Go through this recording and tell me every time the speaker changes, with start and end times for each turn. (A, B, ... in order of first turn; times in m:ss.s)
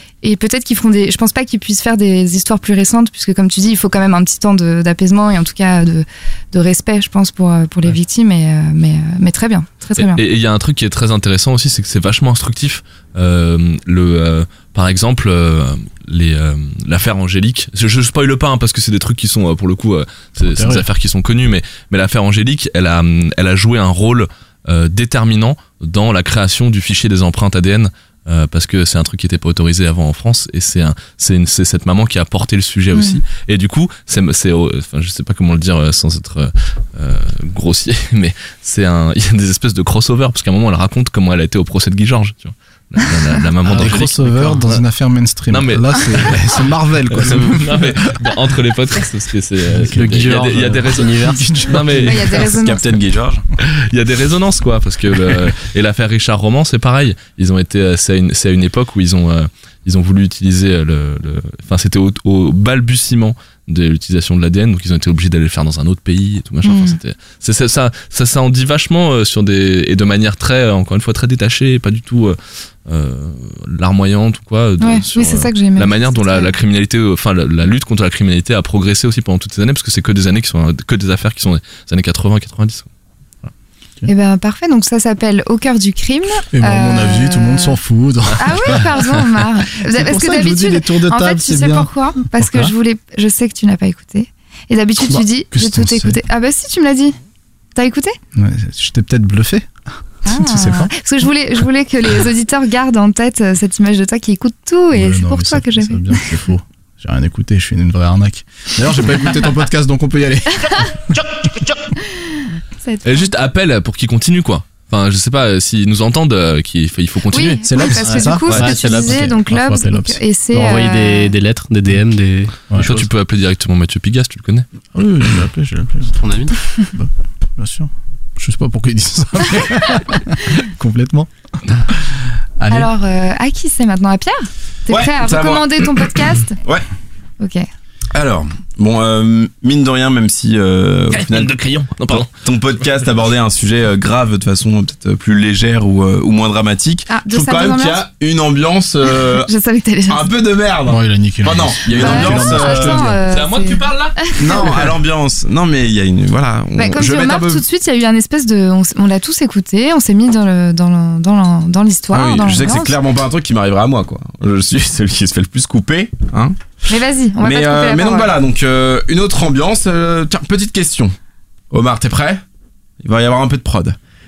0:00.2-0:10.2 A
0:10.0-0:44.8 B
0:20.4-0:20.9 C
0:33.0-0:33.2 A
0:43.7-0:48.0 C
0:45.5-0:46.4 B
0:47.1-0:52.4 B
0:49.7-0:50.0 C
0:49.9-0:52.0 D
0:51.2-0:51.9 C
0:52.0-0:53.0 A
0:52.4-0:53.4 E
0:53.6-1:22.9 B
1:06.6-1:07.0 A
1:14.8-1:16.5 A
1:24.1-1:27.8 A
1:26.5-1:29.0 C
1:28.4-1:37.2 A
1:29.8-1:32.7 C
1:35.0-1:36.2 C
1:37.8-1:38.2 A
1:38.3-1:39.7 C
1:40.2-1:46.3 A
1:40.3-1:40.9 C
1:44.9-1:51.3 C
1:52.8-1:53.1 A
1:53.0-1:57.6 B
1:57.3-2:01.3 A
1:57.6-2:00.2 C
1:58.0-1:59.2 D
2:00.5-2:03.0 D
2:02.8-2:04.7 B
2:04.9-2:06.2 C
2:06.2-2:06.6 D
2:06.9-2:11.3 C
2:12.6-2:12.9 C
2:12.7-2:16.6 A
2:14.9-2:16.8 E
2:17.4-2:17.7 A
2:18.1-2:29.5 E
2:21.1-2:22.3 B
2:27.1-2:28.0 A
2:29.3-2:30.3 A
2:30.1-2:33.1 E
2:30.9-2:33.2 C
2:31.9-2:34.7 A
2:33.3-2:34.2 B
2:34.4-2:37.6 E
2:36.8-2:43.0 A
2:42.1-2:46.6 E
2:46.9-2:48.4 A
2:47.4-2:51.1 E
2:51.7-2:52.4 E
2:53.0-2:54.0 E